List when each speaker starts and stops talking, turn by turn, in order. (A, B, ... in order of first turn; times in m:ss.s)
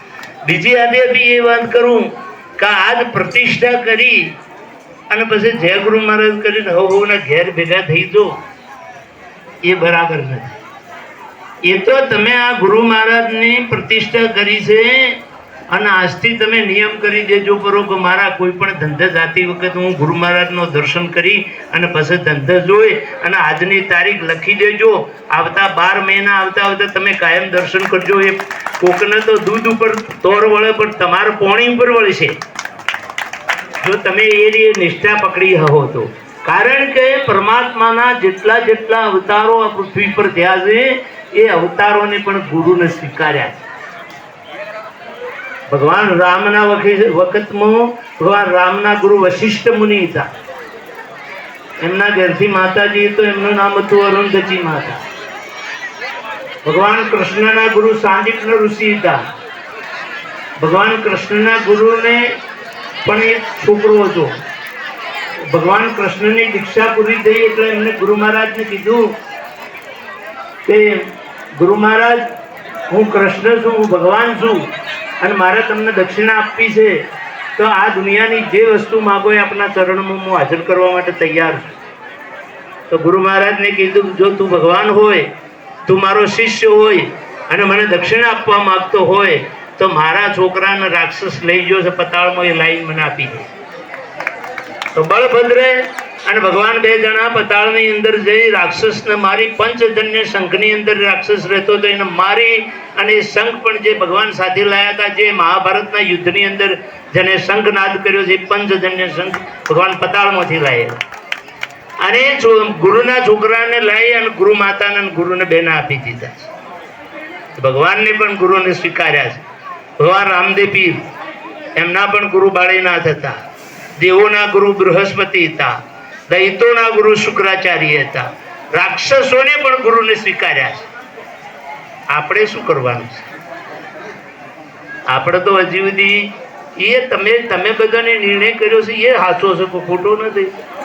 0:00.4-0:04.3 A
0:05.1-0:08.4 A
0:09.6-0:10.5 A
0:11.6-0:15.2 A
0:15.7-0:32.3 A
0:33.8-0:43.6 A
0:45.7-0:50.3 A
0:51.8-0:55.0 A
0:56.6-0:59.2 A
1:00.6-1:02.4 A
1:03.0-1:04.4 A
1:05.4-1:09.2 A
1:10.6-1:12.2 A
1:12.9-1:14.7 A
1:15.2-1:17.0 A
1:17.6-1:21.7 A
1:22.9-1:25.3 A
1:25.8-1:33.5 A
1:34.9-1:51.0 A
1:52.0-1:56.5 A
1:57.6-1:59.4 A
2:00.0-2:01.0 A
2:01.7-2:03.4 A
2:04.0-2:05.7 A
2:06.3-2:10.9 A
2:12.1-2:13.3 A
2:15.1-2:20.5 A